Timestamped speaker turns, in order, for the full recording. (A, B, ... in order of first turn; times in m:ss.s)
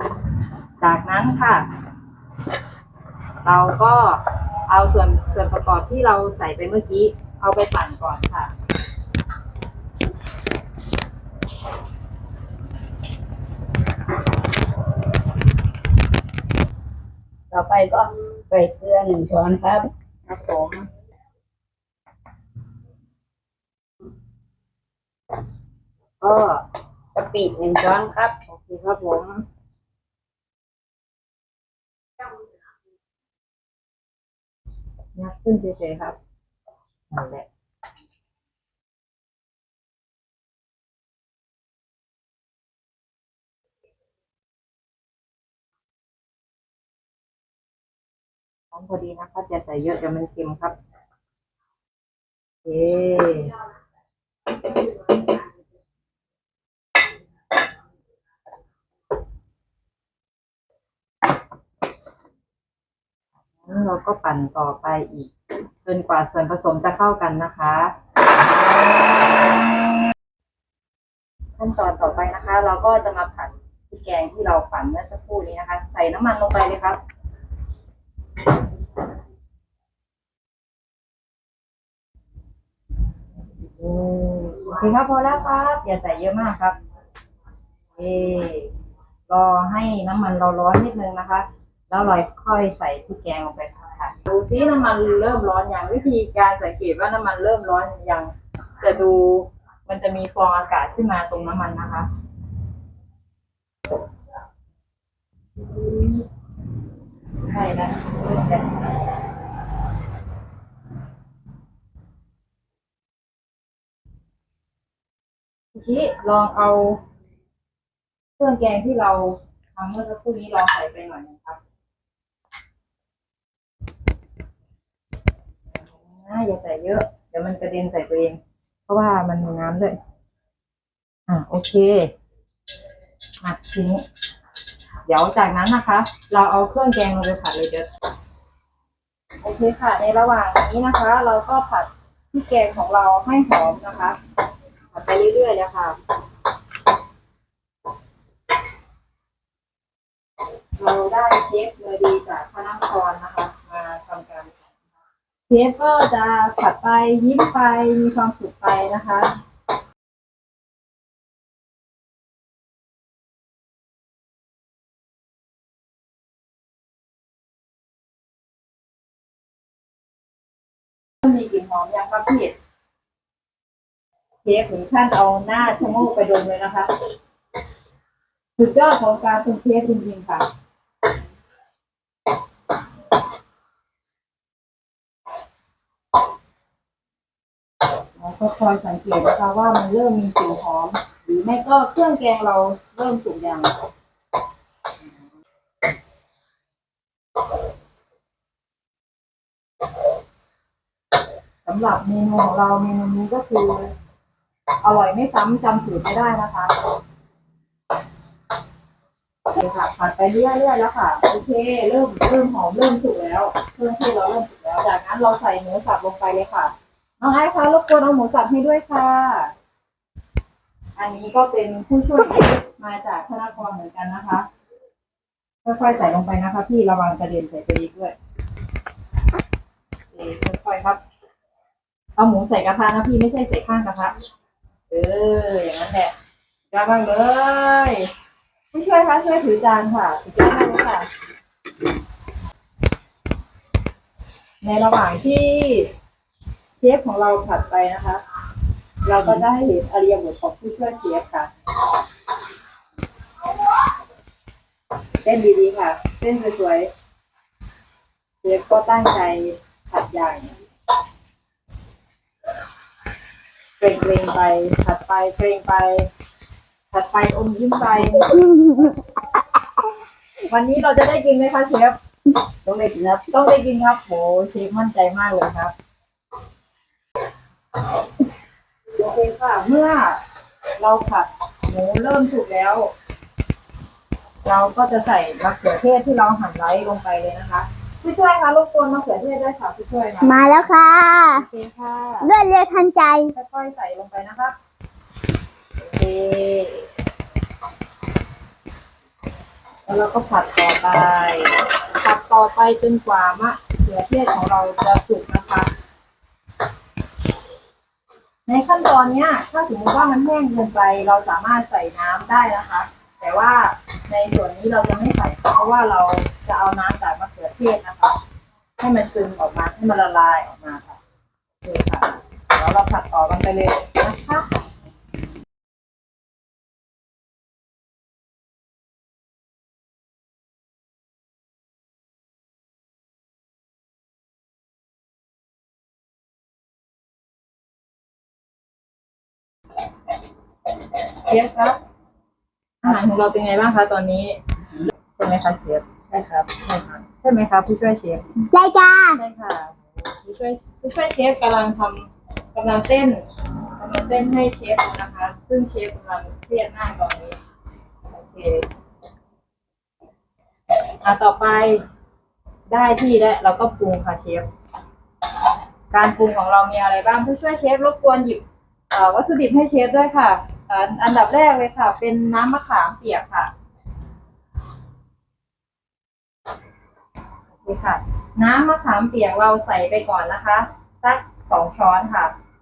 0:00.8-0:01.7 A
0:03.4-0:08.5 A
0:17.5-0:19.9 B
0:20.3-0:20.8 A
0:26.2-0:26.6 A
0:27.2-0:28.4 B
0:28.5-0:29.4 A
0:35.2-0:36.2 A
0:37.1-0:37.4 A
0:48.7-0:50.8 A
0:52.6-0:53.6 A
1:03.7-1:05.3 A
1:05.8-1:07.9 A
1:11.6-1:17.0 A
1:23.8-1:26.8 A
1:28.0-1:28.7 A
1:29.3-1:42.1 A
1:45.6-1:46.2 A
1:47.5-1:48.8 A
1:55.8-1:57.0 A
1:58.4-2:01.6 A
2:06.2-2:10.0 A
2:11.3-2:12.1 A
2:13.4-2:14.0 A
2:15.1-2:17.9 A
2:19.4-2:24.2 A
2:24.9-2:26.0 A
2:30.8-2:34.6 A
2:35.5-2:39.4 A
2:51.2-2:52.6 A
2:54.4-2:56.9 A
2:58.6-3:00.5 A
3:08.2-3:13.7 A
3:21.6-3:23.9 A
3:24.8-3:26.8 A
3:29.5-3:39.5 A
3:41.0-3:44.5 A
3:45.6-3:48.2 A
3:50.1-3:51.0 A
3:52.2-3:54.2 A
3:54.9-3:56.1 A
3:56.7-3:58.1 A
3:58.7-4:01.1 A
4:04.6-4:05.9 A
4:06.8-4:08.2 A
4:09.0-4:11.5 A
4:15.2-4:16.9 A
4:18.4-4:20.5 A
4:23.8-4:26.1 A
4:26.9-4:28.4 A
4:28.3-4:29.0 C
4:30.5-4:32.0 A
4:32.6-4:33.3 B
4:33.3-4:35.7 A
4:39.0-4:40.2 A
4:40.8-4:42.9 A
4:44.4-4:50.4 A
4:50.2-4:51.4 C
4:51.4-4:52.3 A
4:52.2-4:53.3 C
4:53.3-4:54.6 A
4:55.9-4:56.9 A
4:59.9-5:05.7 A
5:08.5-5:18.2 A
5:18.8-5:21.0 A
5:21.6-5:24.5 A
5:41.3-5:41.8 A
5:42.8-5:44.4 A
5:45.2-5:48.2 A
5:48.5-5:49.2 C
5:49.2-5:53.2 A
5:53.8-5:57.4 A
5:58.1-5:58.7 A
6:01.0-6:01.8 A
6:02.7-6:04.5 A
6:05.9-6:13.5 A
6:17.6-6:22.3 A